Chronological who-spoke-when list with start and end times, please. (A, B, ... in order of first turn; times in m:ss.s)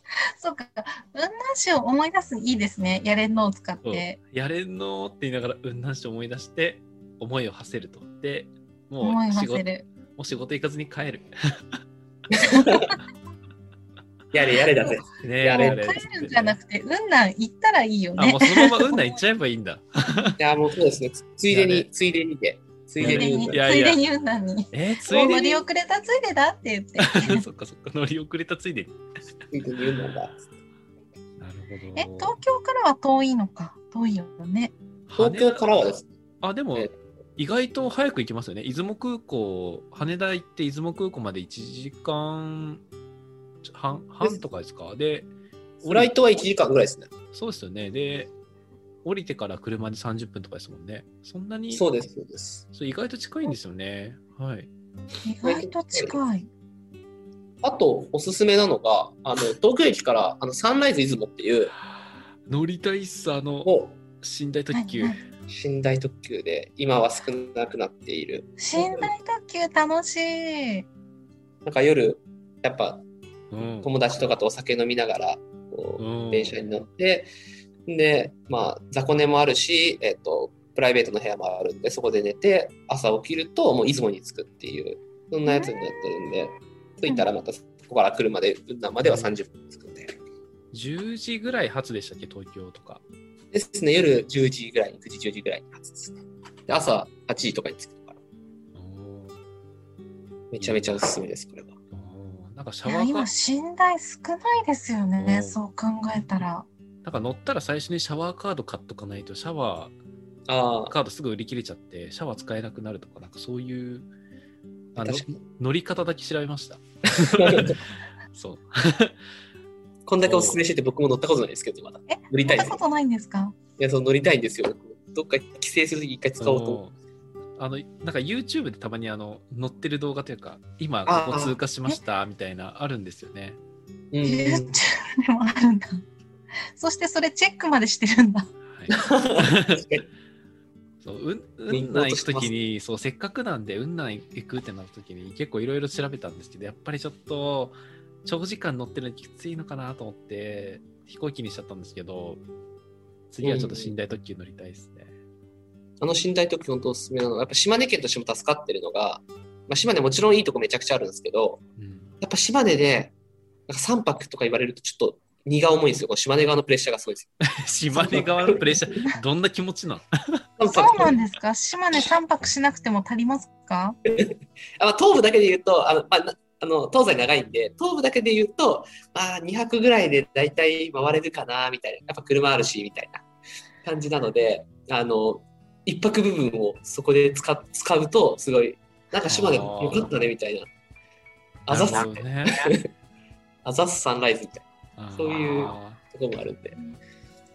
0:00.3-0:04.2 A
0:03.8-0:11.8 B
0:09.0-0:09.8 A
0:12.3-0:12.9 C
0:12.4-0:12.8 A
0:14.3-0:16.0 C
0:15.2-0:16.6 B
0:15.5-0:19.2 A
0:18.2-0:20.4 B
0:20.4-0:23.6 C
0:21.5-0:21.9 B
0:23.0-0:24.0 B
0:23.0-0:27.4 A
0:24.7-0:25.6 B
0:27.0-0:29.0 B
0:29.5-0:30.4 C
0:31.4-0:32.4 B
0:32.0-0:34.7 A
0:35.1-0:35.9 B
0:35.2-0:36.1 C
0:36.4-0:42.8 B
0:43.6-0:45.3 B
0:45.8-0:46.1 B
0:45.8-0:47.1 C
0:47.3-0:48.3 B
0:49.0-0:51.8 B
0:51.7-0:52.6 C
0:52.7-0:54.7 B
0:55.2-0:56.5 A
0:55.4-0:56.2 C
0:57.6-1:01.7 C
1:02.4-1:05.2 B
1:03.6-1:03.9 C
1:04.7-1:05.2 A
1:05.5-1:09.1 C
1:08.6-1:10.8 A
1:11.6-1:13.0 C
1:13.5-1:13.9 B
1:13.8-1:17.3 C
1:16.0-1:16.6 B
1:17.9-1:30.2 C
1:25.5-1:25.7 A
1:29.0-1:29.3 B
1:30.7-1:33.0 B
1:33.5-1:38.2 C
1:38.7-1:39.4 B
1:40.5-1:41.8 C
1:40.6-1:41.0 B
1:41.9-1:43.3 B
1:42.8-1:46.6 A
1:45.2-1:45.6 B
1:47.0-1:49.9 B
1:50.5-1:50.9 C
1:50.9-1:54.1 B
1:54.9-1:59.2 B
1:55.0-1:55.3 C
1:57.3-1:57.8 C
2:00.1-2:02.8 C
2:00.2-2:00.6 B
2:02.1-2:03.5 A
2:03.8-2:06.8 C
2:06.4-2:06.9 B
2:07.6-2:13.6 B
2:11.1-2:11.6 C
2:14.1-2:14.7 C
2:14.2-2:16.0 A
2:16.8-2:18.5 A
2:18.7-2:19.8 B
2:18.9-2:20.0 C
2:21.0-2:32.4 B
2:21.7-2:22.5 C
2:33.3-2:35.1 B
2:33.4-2:33.9 C
2:36.0-2:41.6 C
2:41.8-2:42.1 B
2:42.2-2:43.1 C
2:43.7-2:47.4 C
2:47.4-2:50.4 B
2:47.9-2:48.9 C
2:50.6-2:51.2 C
2:50.7-2:54.0 A
2:54.1-3:03.2 C
3:03.8-3:10.7 C
3:09.2-3:10.1 B
3:11.6-3:12.8 C
3:11.7-3:12.7 B
3:13.6-3:16.8 C
3:15.0-3:16.0 B